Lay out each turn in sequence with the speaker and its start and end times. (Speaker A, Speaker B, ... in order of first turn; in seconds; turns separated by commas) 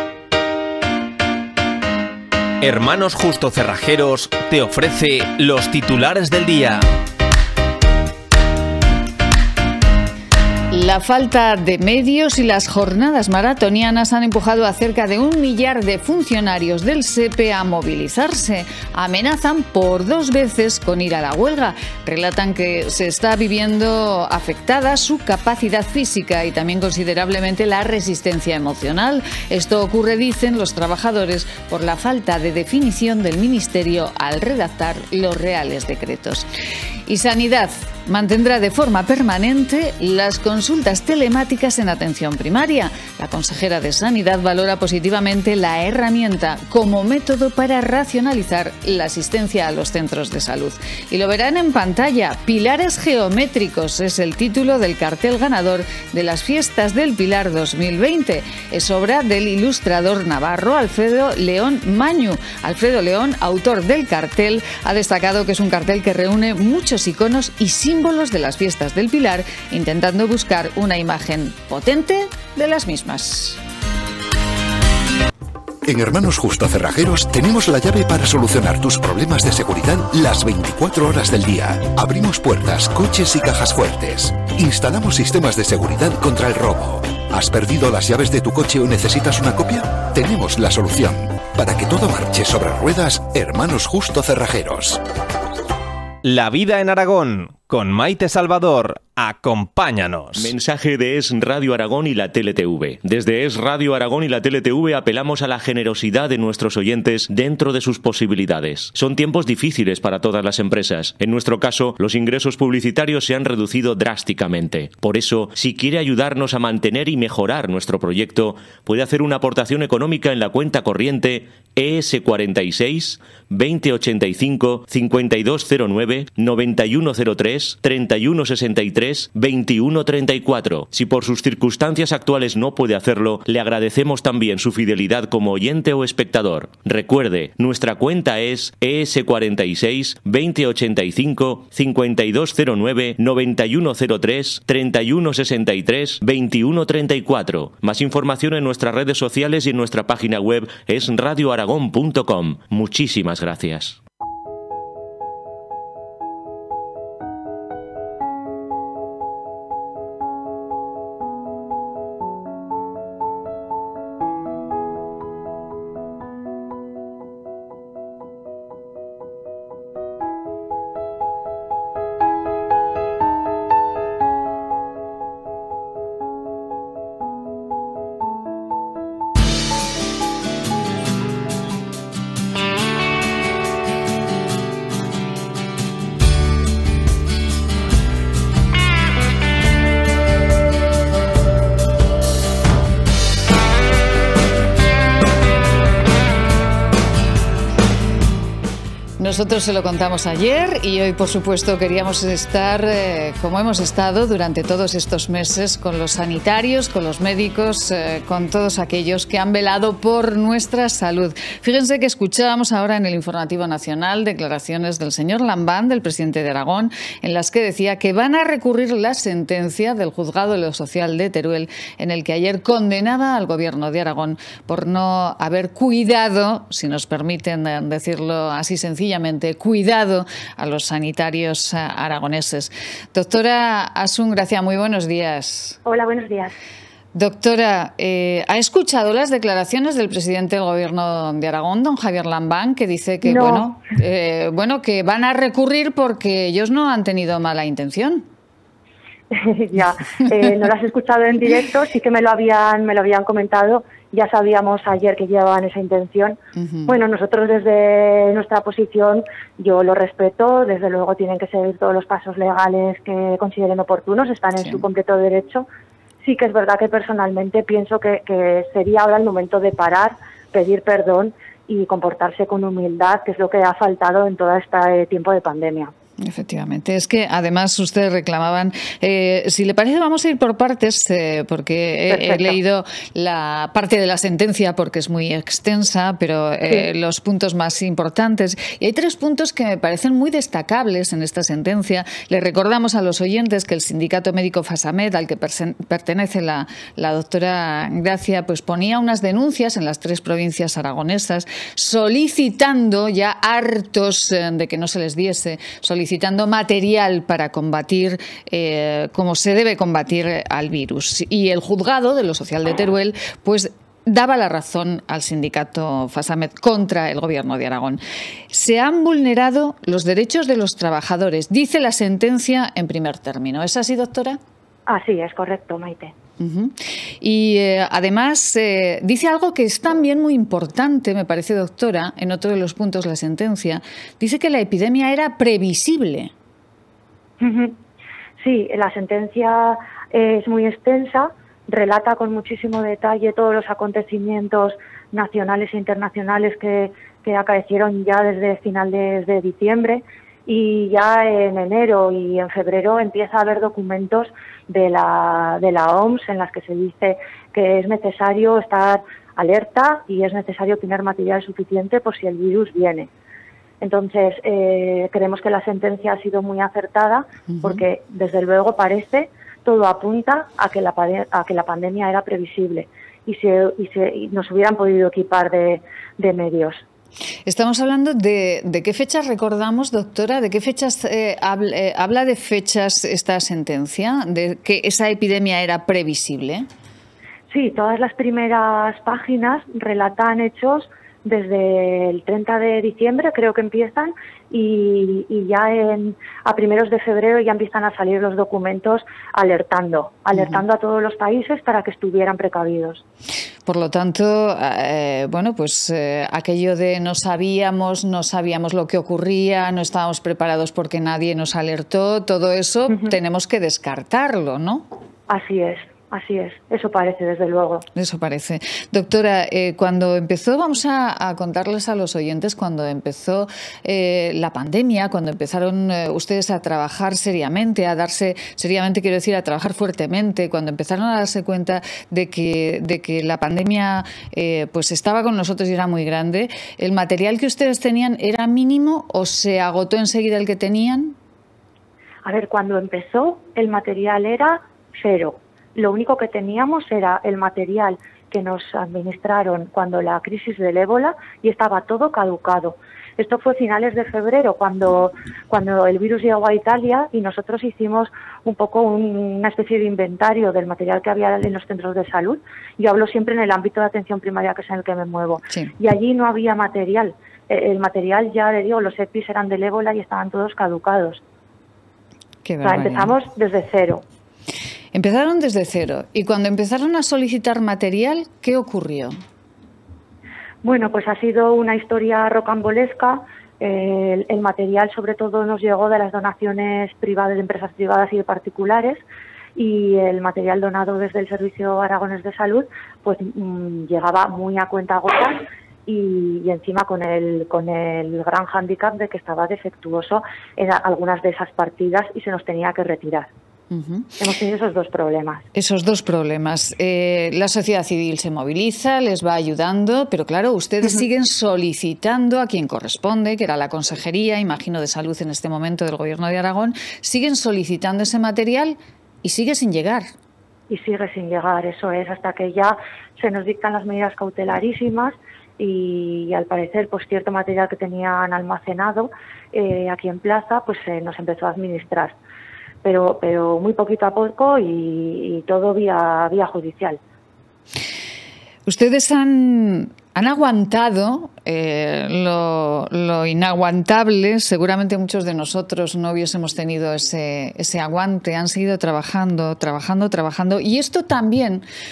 Speaker A: 2.6-6.8, Speaker B: 10.7-36.5, Speaker B: 37.1-73.6, Speaker C: 75.8-95.0, Speaker A: 96.2-100.5, Speaker D: 100.4-154.0, Speaker B: 199.2-235.8, Speaker E: 235.9-236.5, Speaker B: 237.2-248.3, Speaker E: 243.2-243.7, Speaker E: 249.3-265.7, Speaker B: 256.6-256.9, Speaker E: 266.2-275.9, Speaker B: 276.2-324.4, Speaker E: 282.1-282.6, Speaker E: 324.9-326.1, Speaker B: 326.4-336.3, Speaker E: 337.4-337.8, Speaker E: 338.4-363.1, Speaker E: 363.8-376.8, Speaker B: 367.5-367.8, Speaker B: 377.5-386.7, Speaker E: 387.5-403.0, Speaker B: 400.3-400.6, Speaker B: 403.7-414.9, Speaker E: 415.3-417.9, Speaker B: 417.9-441.2, Speaker E: 442.2-471.2, Speaker B: 472.4-473.1, Speaker E: 472.6-474.0, Speaker B: 474.9-479.2, Speaker E: 480.6-489.0, Speaker E: 489.6-503.3, Speaker B: 503.7-504.2, Speaker E: 504.2-505.4, Speaker B: 505.6-520.1, Speaker E: 520.7-532.1, Speaker E: 532.8-537.0, Speaker B: 538.7-551.6